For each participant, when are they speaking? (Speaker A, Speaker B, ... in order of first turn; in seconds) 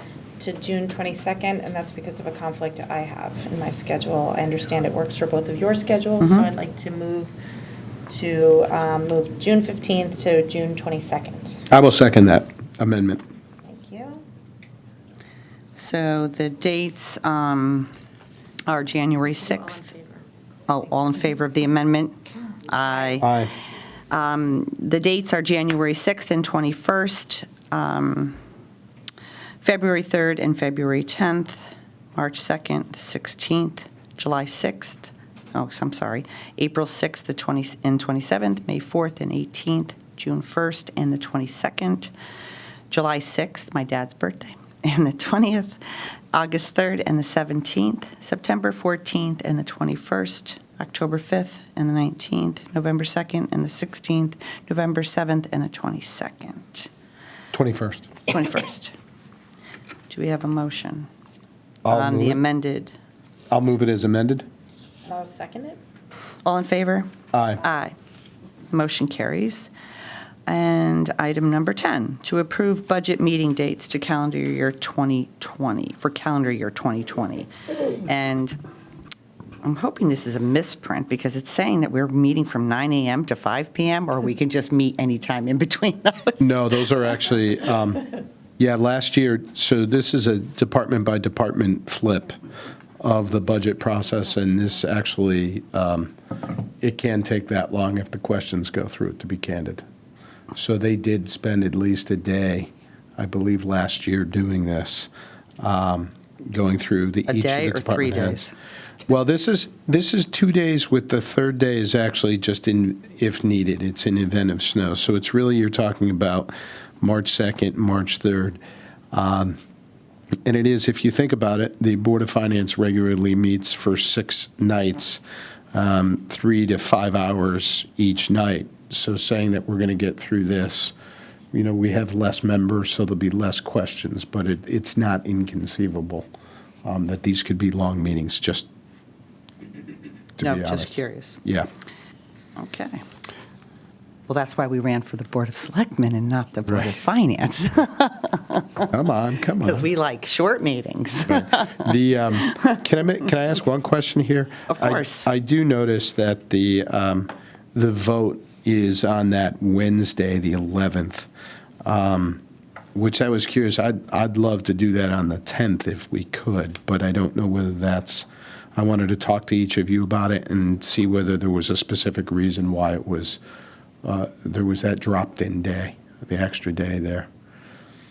Speaker A: 0.4-7.3, 8.1-11.6, 13.6-14.2, 19.7-20.2, 65.0-65.8
Speaker B: 6.2-6.5, 15.8-17.9, 18.7-19.9, 20.7-22.2, 22.7-23.4, 24.1-28.4, 29.6-31.6, 32.1-42.1, 42.9-45.7, 46.3-56.9, 58.3-58.9, 60.1-61.1, 61.9-62.9, 66.4-67.9, 68.7-69.7, 70.5-77.5, 78.0-78.6, 79.6-86.6, 107.3-108.5, 140.4-141.4, 142.6-143.0, 144.3-148.8, 149.6-151.8, 154.7-155.3
Speaker C: 11.7-13.2, 23.2-23.5, 57.5-58.1, 61.8-62.4, 63.5-64.5, 67.3-67.6, 86.4-92.4, 93.0-96.1, 96.8-99.8, 100.5-108.4, 109.1-118.6, 119.1-119.6, 120.4-125.2, 125.7-130.9, 131.5-136.2, 136.8-138.7, 140.4-141.7, 146.7-147.0, 148.9-149.8, 151.3-161.3, 161.8-162.4, 162.9-173.4, 174.0-177.3